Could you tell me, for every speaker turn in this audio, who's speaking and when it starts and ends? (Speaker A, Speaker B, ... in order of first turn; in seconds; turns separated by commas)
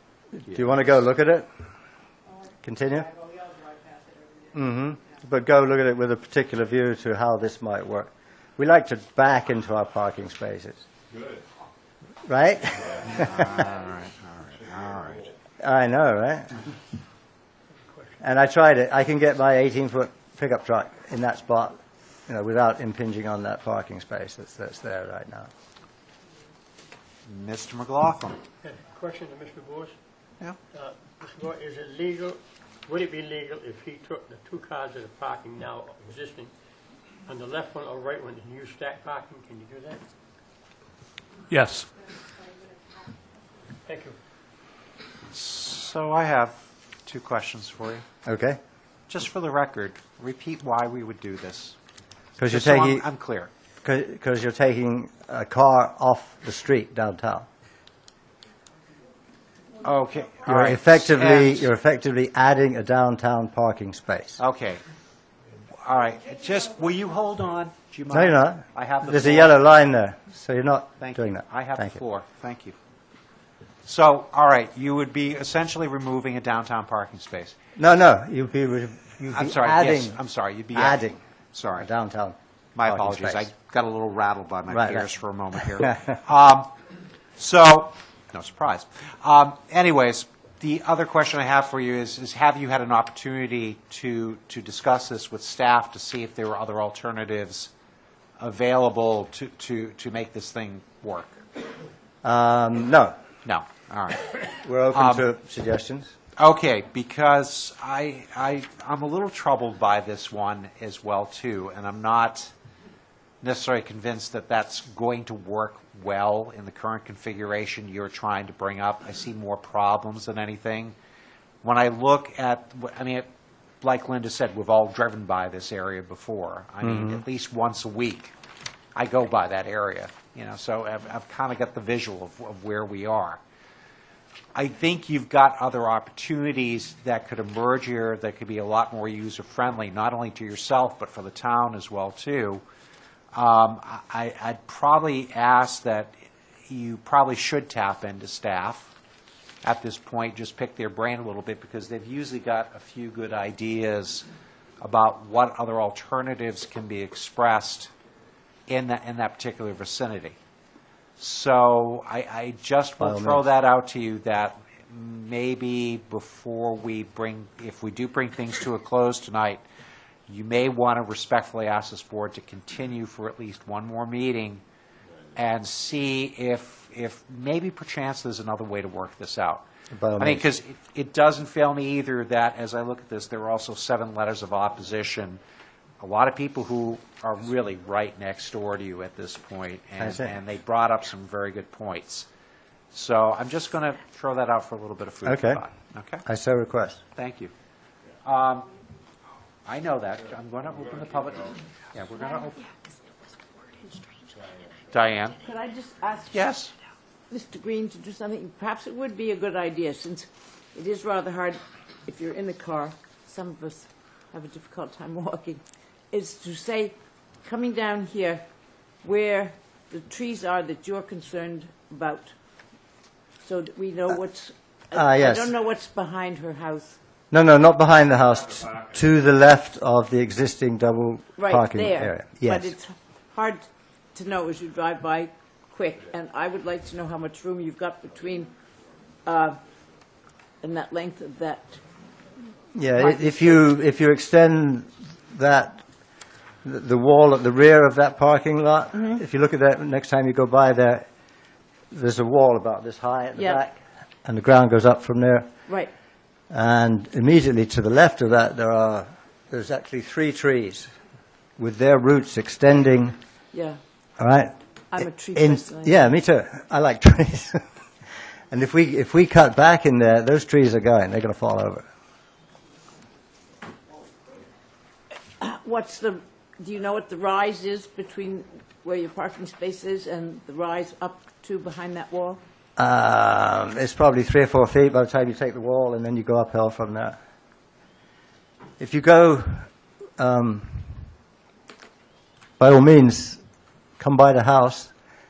Speaker A: 0.3-1.4, Speaker A: 2.6-3.2, Speaker A: 4.5-10.8, Speaker A: 12.2-13.5, Speaker B: 13.0-15.3, Speaker A: 15.6-16.6, Speaker C: 17.9-18.2, Speaker A: 18.2-21.8, Speaker A: 22.3-25.5, Speaker B: 27.3-28.4, Speaker C: 28.6-29.9, Speaker C: 30.7-36.5, Speaker C: 37.2-40.0, Speaker C: 43.9-44.2, Speaker B: 45.3-46.5, Speaker B: 47.0-48.0, Speaker A: 48.2-48.6, Speaker B: 49.1-51.8, Speaker A: 52.4-53.0, Speaker B: 52.5-53.5, Speaker A: 53.8-57.5, Speaker B: 59.8-61.7, Speaker A: 60.4-64.4, Speaker B: 64.4-64.8, Speaker B: 65.8-69.6, Speaker A: 68.1-72.0, Speaker B: 71.0-72.8, Speaker B: 73.8-77.5, Speaker A: 77.8-80.2, Speaker B: 79.3-81.0, Speaker A: 80.7-81.2, Speaker B: 81.5-81.9, Speaker A: 81.8-83.5, Speaker B: 82.7-86.7, Speaker A: 84.7-85.1, Speaker B: 87.4-97.7, Speaker B: 98.4-101.4, Speaker A: 102.2-103.1, Speaker B: 103.4-105.2, Speaker A: 104.6-106.1, Speaker B: 106.4-112.5, Speaker B: 113.4-120.9, Speaker B: 121.6-123.3, Speaker B: 123.8-128.3, Speaker A: 126.8-127.2, Speaker B: 128.9-133.4, Speaker B: 134.5-142.6, Speaker B: 143.3-146.1, Speaker B: 146.7-148.9, Speaker B: 149.6-154.2, Speaker B: 154.8-157.9, Speaker B: 158.7-160.3, Speaker B: 161.2-169.6, Speaker A: 163.0-163.4, Speaker B: 170.3-174.6, Speaker B: 175.3-179.6, Speaker A: 179.9-180.5, Speaker B: 180.2-185.4, Speaker B: 186.0-192.3, Speaker A: 190.0-190.3, Speaker B: 192.9-196.2, Speaker A: 195.2-195.6, Speaker A: 196.2-197.0, Speaker B: 197.1-197.5, Speaker B: 198.2-198.7, Speaker B: 199.6-202.6, Speaker B: 204.9-205.4, Speaker D: 205.4-206.4, Speaker B: 206.3-206.7, Speaker D: 207.3-218.4, Speaker D: 219.0-222.3, Speaker D: 223.4-227.0, Speaker A: 224.9-225.5, Speaker A: 227.3-232.8, Speaker D: 231.4-238.5, Speaker D: 239.2-239.6, Speaker D: 240.6-241.8, Speaker A: 242.7-245.8, Speaker D: 243.0-243.4, Speaker A: 246.6-251.0, Speaker A: 251.9-255.5, Speaker D: 253.3-253.6, Speaker A: 256.5-260.9, Speaker A: 261.6-263.1, Speaker D: 263.5-263.8, Speaker A: 264.2-264.5, Speaker D: 264.9-266.0, Speaker A: 265.3-267.6, Speaker A: 268.5-271.8, Speaker D: 275.4-282.4, Speaker A: 282.8-287.1, Speaker A: 288.8-290.9, Speaker A: 292.6-293.4, Speaker A: 294.0-294.9